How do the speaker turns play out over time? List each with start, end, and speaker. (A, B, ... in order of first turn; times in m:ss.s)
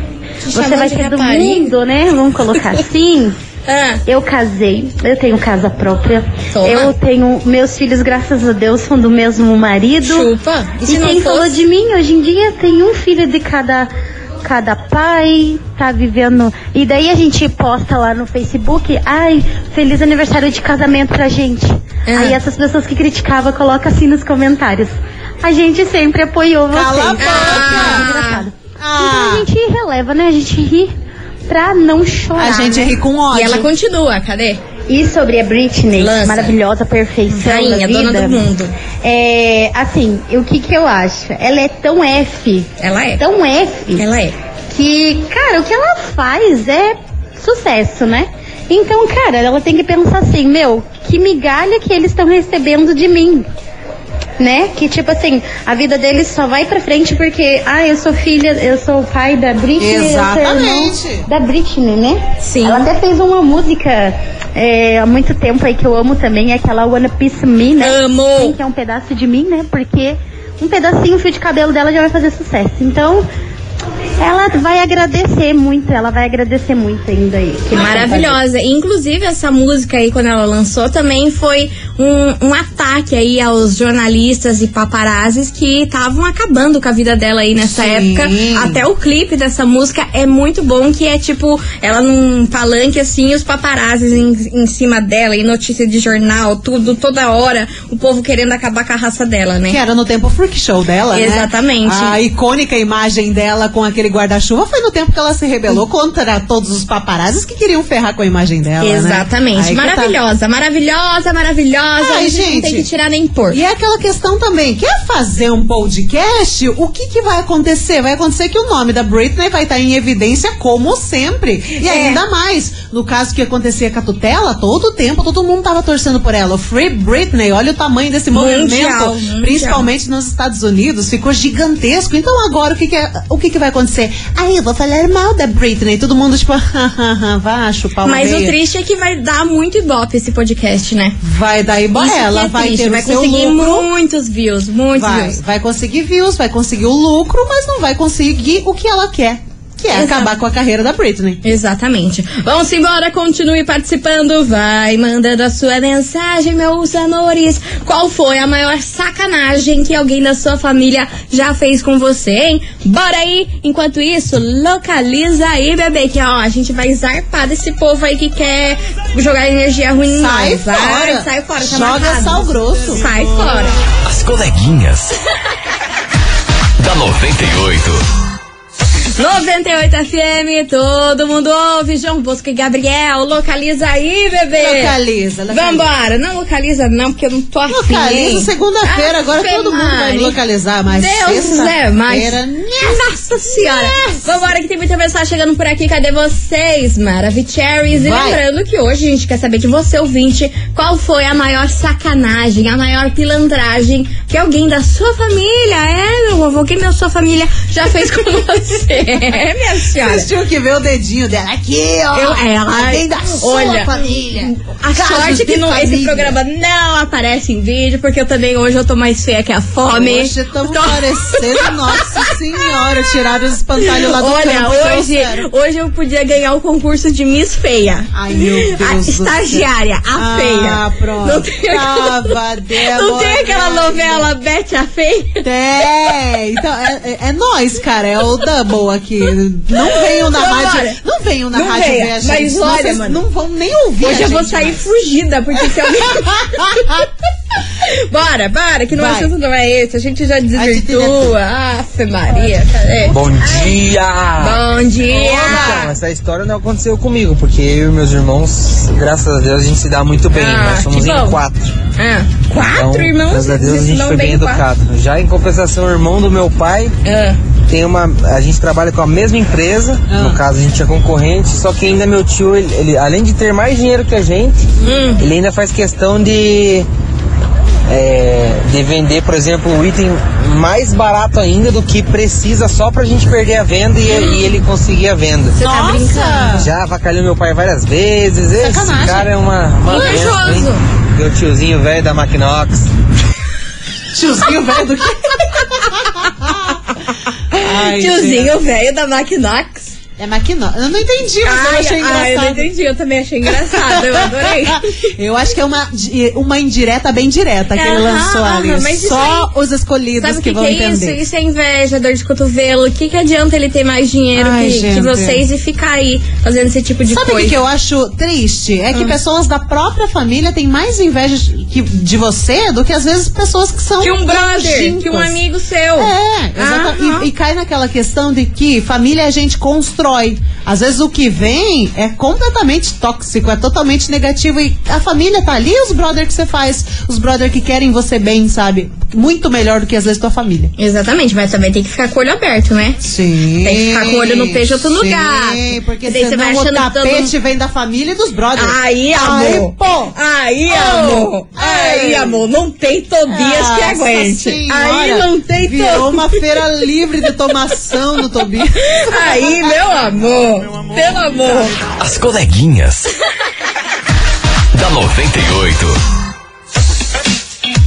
0:00.4-0:01.7 A
0:00.5-0:03.4 B
0:03.7-0:04.0 A
0:04.0-0:10.3 B
0:06.5-0:06.9 A
0:10.0-0:11.6 A
0:10.9-0:13.9 B
0:14.4-0:30.9 B
0:22.0-0:22.4 A
0:26.7-0:28.1 C
0:27.2-0:28.5 A
0:28.8-0:29.5 C
0:31.5-0:33.0 B
0:32.4-0:33.7 C
0:33.3-0:34.6 A
0:34.9-0:38.4 B
0:36.0-0:36.6 A
0:37.3-0:38.7 A
0:39.0-0:44.0 B
0:42.8-0:43.2 A
0:43.9-0:44.4 A
0:44.7-0:53.5 B
0:54.4-1:13.2 B
0:59.8-1:01.2 C
1:02.4-1:02.9 A
1:07.8-1:08.6 A
1:14.2-1:18.4 B
1:17.7-1:39.8 A
1:27.6-1:28.8 C
1:39.7-1:50.2 C
1:41.1-1:42.2 A
1:48.8-1:53.6 A
1:52.0-1:52.9 C
1:53.5-2:18.5 C
2:01.8-2:02.2 A
2:08.3-2:09.9 A
2:18.0-2:21.2 A
2:21.2-2:23.9 C
2:21.9-2:25.4 A
2:24.9-2:31.4 C
2:29.9-2:30.3 A
2:31.4-2:53.8 A
2:50.1-2:53.0 C
2:54.0-2:55.2 D
2:56.8-2:58.0 D
2:59.2-3:04.9 A
3:04.6-3:05.9 C
3:05.5-3:10.4 A
3:07.7-3:14.5 C
3:10.9-3:30.3 A
3:17.9-3:18.4 C
3:30.0-3:36.4 C
3:32.1-3:42.0 A
3:39.9-3:45.4 C
3:43.8-3:55.4 A
3:48.1-3:54.3 C
3:55.4-4:04.8 C
3:59.8-4:01.0 A
4:01.5-4:03.2 A
4:04.0-4:06.9 A
4:05.6-4:07.1 C
4:07.8-4:13.2 A
4:08.9-4:09.3 C
4:10.5-4:11.3 C
4:13.1-4:21.7 E
4:14.4-4:15.9 A
4:15.1-4:15.9 C
4:20.3-4:21.4 A
4:22.0-4:24.6 A
4:22.5-4:27.0 E
4:27.0-4:27.4 A
4:27.7-4:36.9 E
4:30.1-4:30.4 C
4:34.8-4:35.2 A
4:37.9-4:45.6 E
4:44.1-4:44.4 A
4:45.6-4:46.6 A
4:45.6-4:46.7 C
4:46.6-4:52.9 E
4:48.6-4:49.3 C
4:49.8-4:50.8 A
4:54.1-4:56.8 C
4:57.5-4:58.5 C
4:57.6-5:00.0 A
5:00.2-5:02.7 C
5:01.4-5:05.0 A
5:03.5-5:11.2 C
5:07.7-5:09.5 A
5:10.2-5:17.6 A
5:14.3-5:15.4 C
5:17.1-5:25.4 C
5:24.0-5:27.3 A
5:26.0-5:40.7 C
5:40.8-5:43.0 A
5:43.0-5:50.1 C
5:43.6-5:47.3 A
5:48.6-5:56.4 A
5:50.7-5:52.4 C
5:53.3-5:59.8 C
5:58.7-6:01.8 A
6:02.0-6:03.1 D
6:04.7-6:06.0 D